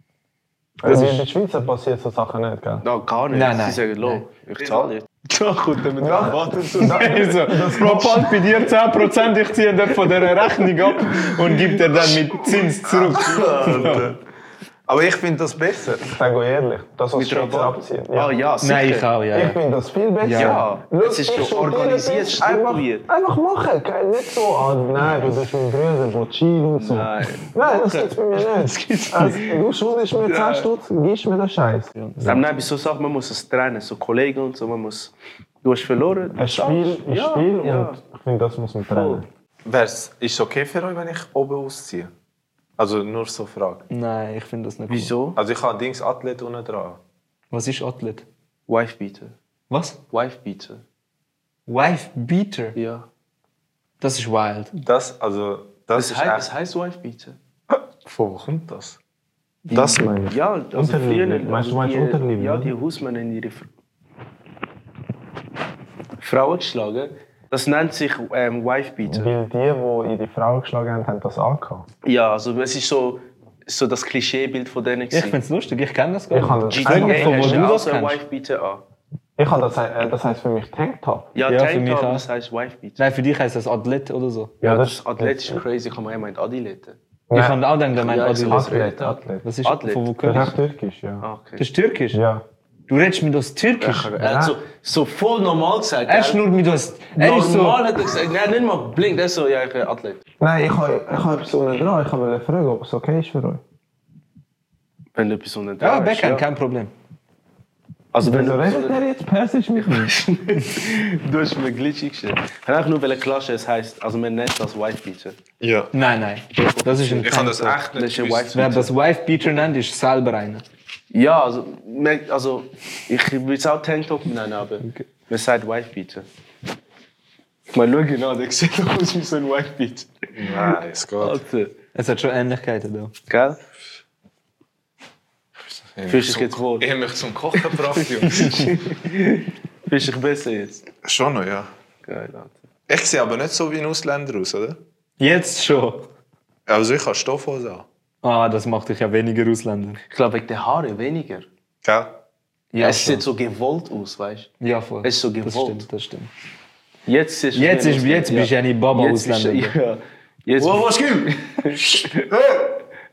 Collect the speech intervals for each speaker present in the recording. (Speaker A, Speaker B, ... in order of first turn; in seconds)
Speaker A: 0.8-2.0, 6.0-8.3, 12.8-14.2, 14.9-18.3, 19.4-20.5, 21.1-22.9, 24.2-26.0, 27.6-30.7, 36.4-42.1, 42.8-43.9, 45.4-47.0, 54.7-56.5, 57.7-59.0, 59.7-62.7, 69.2-69.8, 70.3-70.7, 71.2-71.8, 76.3-77.7, 87.3-87.6, 88.6-89.4, 90.2-90.7, 94.2-94.5, 108.5-108.9, 115.6-115.9, 117.1-118.6, 130.3-131.4, 135.6-138.7, 141.0-141.7, 142.9-144.8, 146.7-147.9, 151.8-152.1, 160.6-161.3, 162.0-162.6
Speaker B: 0.9-1.2, 3.3-4.2, 6.8-14.1, 18.6-19.6, 20.2-20.7, 32.0-32.4, 43.9-45.1, 47.5-48.3, 49.7-50.0, 51.7-52.8, 54.0-54.7, 75.1-78.2, 81.5-82.2, 83.0-84.6, 87.3-88.8, 89.4-90.5, 91.6-92.2, 92.9-94.1, 96.1-97.8, 105.8-106.9, 115.9-117.8, 118.5-120.7, 131.9-133.1, 138.3-138.7, 145.2-146.1, 148.2-150.0, 152.7-153.2, 154.6-156.3, 157.5-159.8
Speaker C: 0.9-2.8, 6.0-8.1, 13.3-13.6, 16.2-18.2, 19.4-20.4, 21.0-22.3, 23.1-27.1, 27.6-28.3, 29.1-31.9, 36.8-37.6, 38.4-39.2, 61.5-62.2, 69.3-71.4, 76.3-76.8, 79.4-81.2, 88.5-89.4, 90.3-91.2, 100.4-103.6, 108.2-110.1
Speaker D: 2.8-7.1, 13.4-13.9, 17.2-19.1, 20.3-23.1, 26.8-29.6, 30.3-30.7, 32.2-38.0, 38.9-39.2, 44.9-45.4, 48.7-49.4, 50.1-50.8, 52.8-53.0, 55.9-57.4, 59.7-63.7, 66.2-69.3, 72.0-75.4, 76.7-78.8, 81.3-83.0, 84.6-87.0, 88.0-90.1, 91.2-91.6, 93.8-96.4, 97.2-100.2, 105.2-106.5, 108.1-109.0, 109.8-115.4, 116.8-118.9, 121.1-126.3, 127.7-131.7, 133.3-133.6, 136.1-136.9, 137.6-140.8, 142.1-142.6, 150.1-151.5, 152.8-154.5, 155.0-155.8, 157.1-162.3